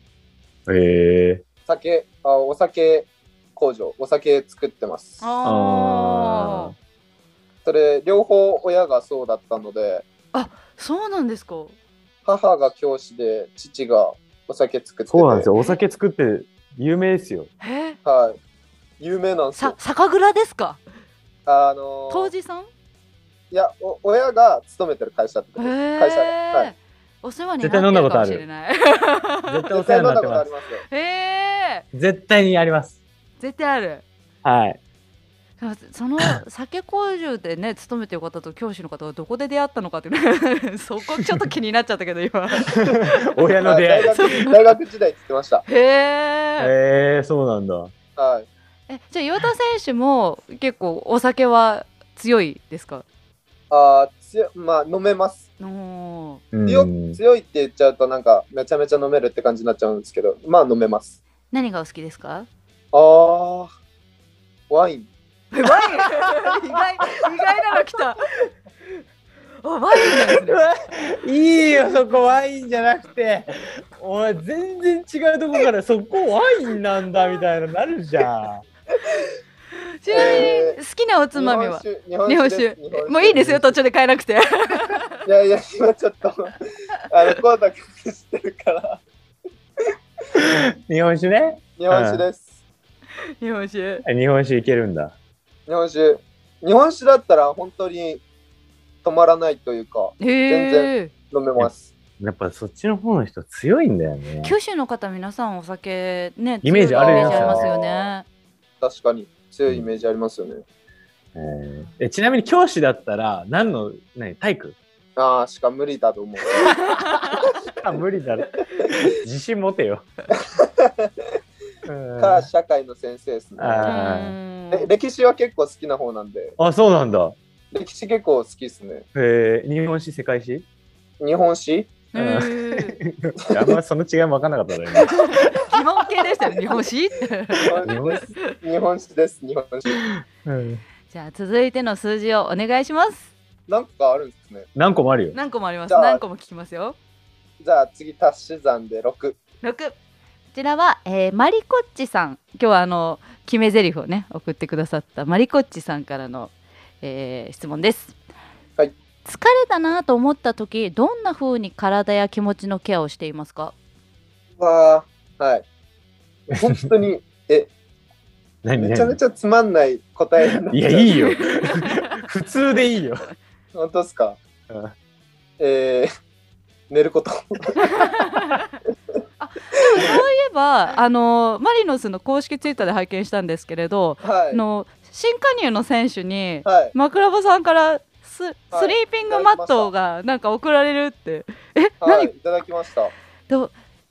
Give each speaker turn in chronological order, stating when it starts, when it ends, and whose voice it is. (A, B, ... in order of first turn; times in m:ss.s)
0:00.7-0:01.4 A
0:01.6-0:05.3 B
0:05.2-0:06.7 C
0:05.4-0:06.7 A
0:07.6-0:10.0 B
0:10.3-0:11.7 C
0:12.2-0:15.5 B
0:15.1-0:17.5 A
0:17.6-0:18.0 C
0:18.0-0:18.4 B
0:19.0-0:19.8 B
0:19.6-0:20.8 C
0:21.4-0:22.3 B
0:22.1-0:22.7 C
0:23.5-0:26.7 B
0:25.6-0:29.6 C
0:27.6-0:28.4 A
0:29.5-0:30.4 A
0:29.7-0:30.8 B
0:30.9-0:31.8 C
0:31.9-0:33.0 A
0:33.4-0:34.0 C
0:34.4-0:34.8 A
0:35.6-0:43.3 C
0:42.7-0:44.6 A
0:43.6-0:45.6 B
0:44.1-0:44.6 C
0:45.7-0:46.7 C
0:46.6-0:47.9 A
0:48.2-0:48.5 B
0:48.9-0:53.0 C
0:53.7-0:55.4 B
0:55.6-0:56.4 C
0:56.5-0:57.2 A
0:56.6-1:01.2 B
1:01.5-1:02.5 C
1:02.9-1:03.7 B
1:04.7-1:05.1 B
1:05.5-1:08.5 C
1:09.6-1:10.6 C
1:10.0-1:18.6 A
1:20.0-1:25.2 C
1:20.1-1:20.8 B
1:21.3-1:23.6 B
1:25.2-1:29.0 B
1:30.3-1:32.2 A
1:31.8-1:32.6 B
1:33.4-1:34.0 C
1:34.0-1:35.1 A
1:35.7-1:38.2 B
1:39.0-1:41.9 B
1:40.2-1:41.1 C
1:41.6-1:44.5 A
1:44.4-1:48.2 C
1:46.6-1:47.7 A
1:46.9-1:48.1 B
1:48.8-1:50.6 B
1:51.3-1:54.8 A
1:55.2-1:56.8 B
1:56.9-2:00.1 A
2:00.4-2:01.1 B
2:01.8-2:02.5 A
2:02.2-2:04.0 B
2:03.6-2:04.3 A
2:03.8-2:04.9 C
2:04.7-2:06.6 B
2:06.6-2:07.4 A
2:07.7-2:09.0 B
2:09.1-2:10.6 A
2:11.2-2:11.9 B
2:12.1-2:13.0 C
2:12.2-2:15.7 A
2:15.0-2:18.3 C
2:17.6-2:20.0 B
2:17.8-2:18.3 A
2:20.4-2:20.8 A
2:21.1-2:23.3 C
2:23.7-2:24.7 B
2:24.8-2:25.4 A
2:25.3-2:27.0 C
2:25.9-2:26.2 B
2:27.6-2:29.4 B
2:29.6-2:30.0 C
2:30.5-2:38.1 C
2:39.2-2:43.7 C
2:44.6-2:45.6 B
2:46.5-2:47.7 B
2:48.6-2:49.2 A
2:48.8-2:51.1 B
2:50.7-2:53.2 A
2:51.1-2:51.9 C
2:53.7-2:54.4 B
2:54.7-2:54.9 A
2:55.6-2:56.1 B
2:56.9-2:58.1 B
2:57.8-2:58.8 C
2:59.4-3:12.3 C
3:04.2-3:04.6 B
3:06.6-3:06.9 B
3:08.7-3:09.9 B
3:12.0-3:13.1 B
3:13.5-3:13.7 C